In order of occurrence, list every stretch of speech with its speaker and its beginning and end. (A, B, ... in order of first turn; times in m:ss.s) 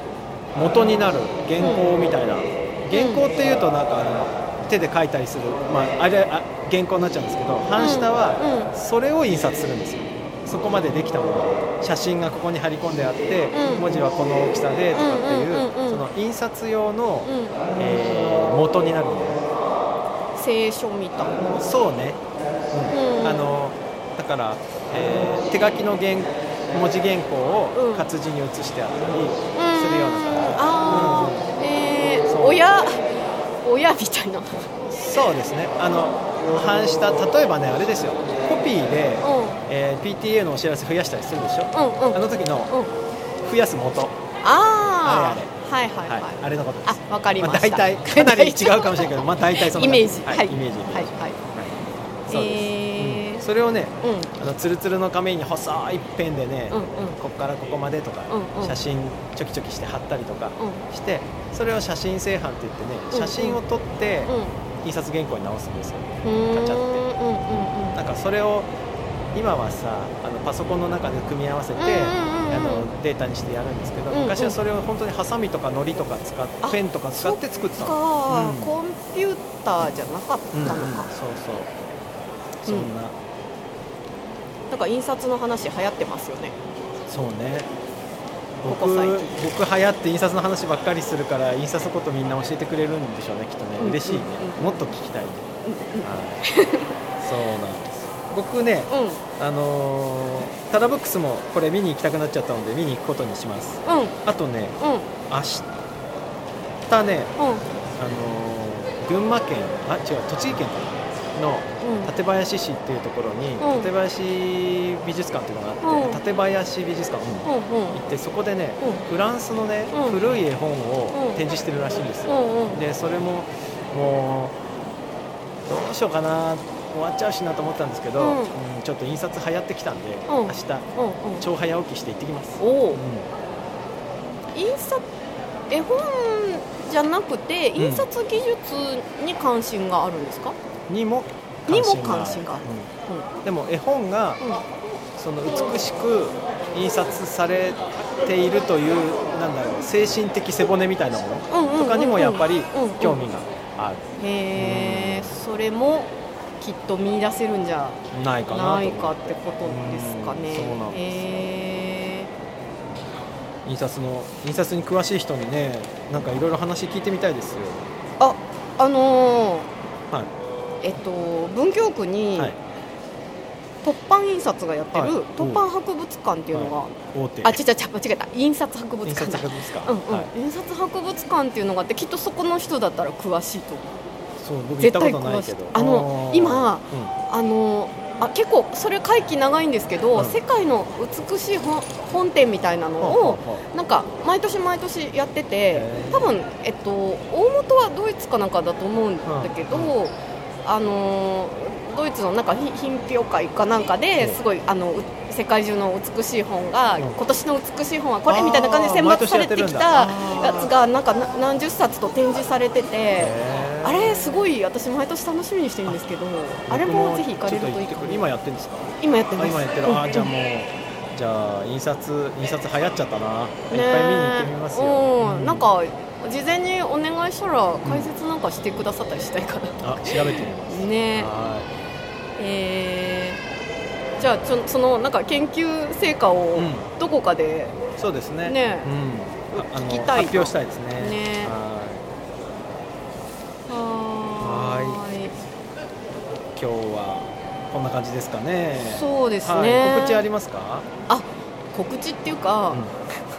0:00.6-0:19.4 A
0:01.6-0:01.9 B
0:02.9-0:03.4 B
0:07.8-0:08.7 B
0:13.5-0:14.0 B
0:14.9-0:16.0 B
0:17.2-0:17.7 B
0:20.4-0:21.5 B
0:21.6-0:22.2 A
0:22.9-0:23.5 B
0:23.2-0:31.5 A
0:27.7-0:28.1 B
0:29.5-0:33.0 B
0:32.3-0:32.6 A
0:33.6-0:34.7 B
0:34.9-0:42.7 A
0:39.2-0:39.6 B
0:41.7-0:42.9 B
0:43.4-0:44.2 A
0:44.4-0:51.4 B
0:45.0-0:45.5 A
0:46.0-0:51.8 A
0:52.3-0:53.4 B
0:52.3-1:07.1 A
0:54.0-0:54.4 B
0:56.7-0:57.2 B
0:58.3-0:58.8 B
1:00.6-1:00.8 B
1:03.1-1:03.6 B
1:04.3-1:04.5 B
1:06.2-1:08.0 B
1:08.0-1:08.7 A
1:09.3-1:18.7 A
1:11.8-1:12.9 B
1:14.1-1:14.6 B
1:16.6-1:21.1 B
1:20.5-1:21.7 A
1:22.6-1:23.1 A
1:24.7-1:26.6 B
1:27.1-1:27.7 A
1:28.6-1:35.5 A
1:28.7-1:29.4 B
1:33.8-1:34.8 B
1:35.6-1:36.9 B
1:36.0-1:36.4 A
1:37.2-1:44.8 A
1:38.9-1:39.2 B
1:43.8-1:44.2 B
1:44.8-1:45.1 B
1:45.3-1:45.7 A
1:46.9-1:47.3 A
1:47.4-1:47.6 B
1:48.0-2:04.6 A
1:51.8-1:52.1 B
1:53.6-1:53.9 B
1:55.8-1:56.2 B
1:57.4-1:58.0 B
1:59.9-2:00.2 B
2:01.1-2:01.4 B
2:02.3-2:02.8 B
2:05.7-2:10.9 A
2:08.2-2:08.6 B
2:10.3-2:11.5 B
2:11.4-2:13.3 A
2:12.6-2:13.0 B
2:14.6-2:15.1 B
2:15.7-2:20.6 B
2:17.8-2:18.1 A
2:20.9-2:22.9 A
2:21.7-2:23.3 B
2:23.4-2:24.4 A
2:25.2-2:34.0 A
2:31.5-2:33.3 B
2:34.2-2:42.3 B
2:34.6-2:35.3 A
2:38.1-2:41.2 A
2:43.7-2:47.9 A
2:48.2-2:49.7 B
2:50.8-2:52.5 B
2:53.8-3:04.0 B
2:54.9-2:55.6 A
2:56.5-2:57.6 A
2:59.0-3:00.3 A
3:04.4-3:07.1 A
3:04.8-3:38.3 B
3:13.0-3:13.6 A
3:15.7-3:16.3 A
3:19.2-3:20.0 A
3:28.3-3:30.7 A
3:33.2-3:34.5 A
3:36.7-3:45.6 A
3:39.0-3:40.3 B
3:43.7-3:51.3 B
3:47.8-3:48.1 A
3:49.8-3:51.7 A
3:52.4-3:53.4 B
3:54.2-3:57.8 B
3:56.6-3:56.9 A
3:58.0-4:02.0 A
3:58.4-3:58.9 B
3:59.5-4:01.5 B
4:03.7-4:05.3 B
4:04.4-4:05.0 A
4:06.6-4:10.9 A
4:08.9-4:10.2 B
4:11.1-4:12.8 B